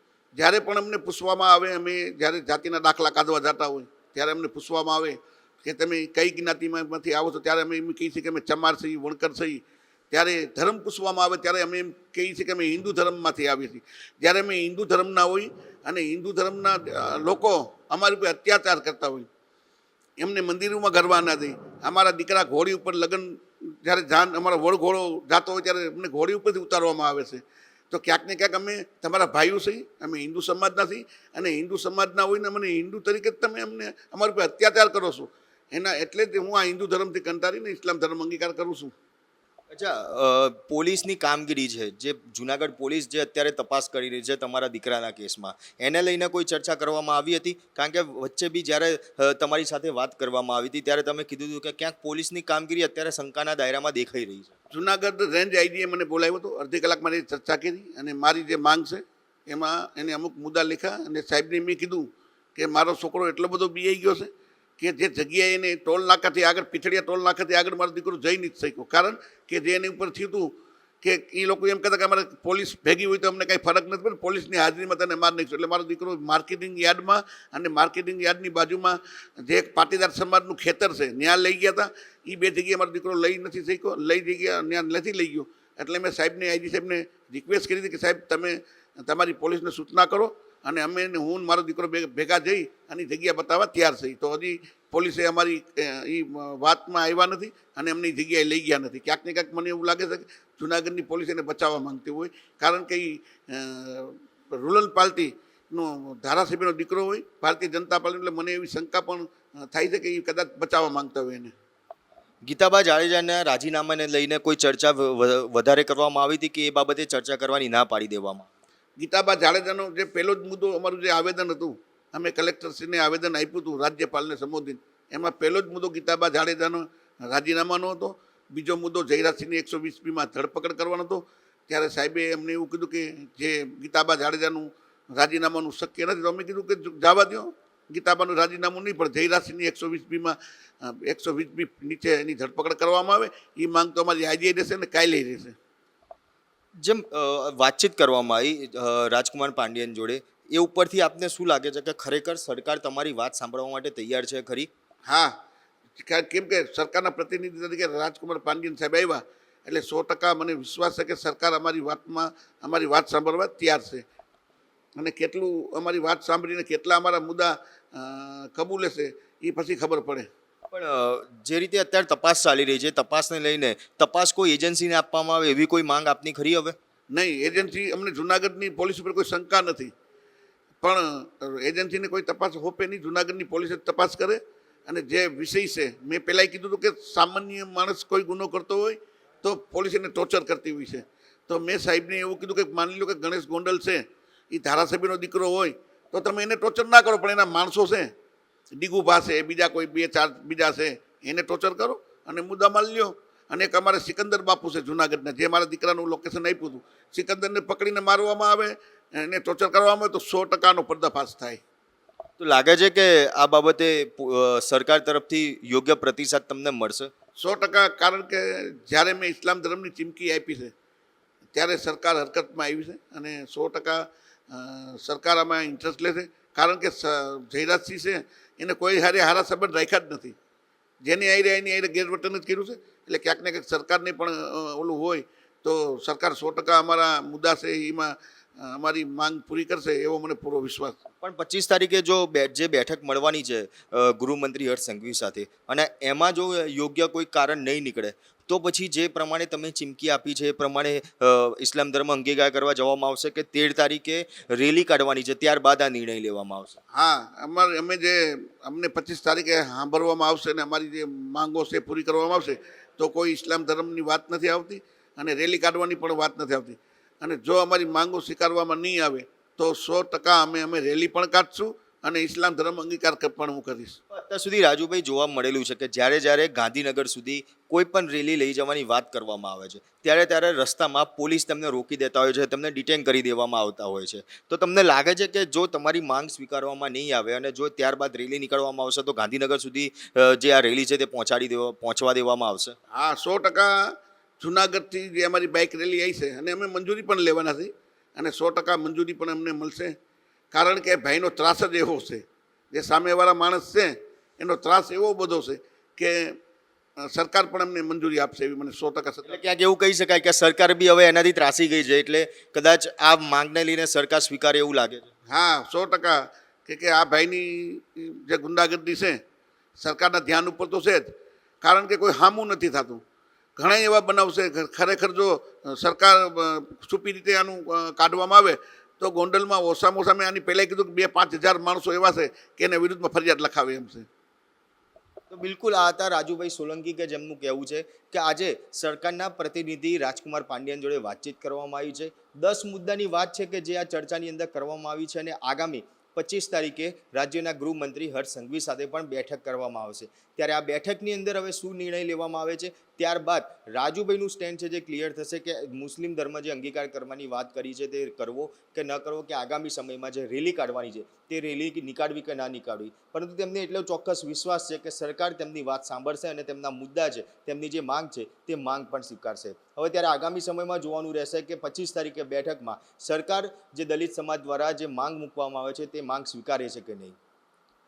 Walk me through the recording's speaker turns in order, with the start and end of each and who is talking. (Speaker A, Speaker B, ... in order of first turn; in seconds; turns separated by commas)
Speaker A: 0.3-19.3, Speaker A: 20.2-38.9, Speaker B: 39.7-54.5, Speaker A: 54.7-111.5, Speaker B: 112.4-118.5, Speaker A: 119.0-145.6, Speaker B: 146.8-154.7, Speaker A: 155.1-155.3, Speaker A: 156.0-164.0, Speaker A: 165.0-170.3, Speaker B: 170.7-176.8, Speaker A: 177.1-179.9, Speaker A: 180.8-198.1, Speaker A: 198.8-211.6, Speaker B: 212.4-217.1, Speaker A: 217.4-220.7, Speaker A: 221.5-230.3, Speaker A: 231.0-241.0, Speaker B: 241.2-256.8, Speaker A: 256.9-274.0, Speaker B: 274.1-292.8, Speaker A: 292.9-299.9, Speaker A: 300.5-306.4, Speaker A: 307.1-309.4, Speaker B: 309.2-315.1, Speaker A: 315.3-319.2, Speaker A: 319.8-323.0, Speaker A: 323.6-334.1, Speaker B: 335.3-377.1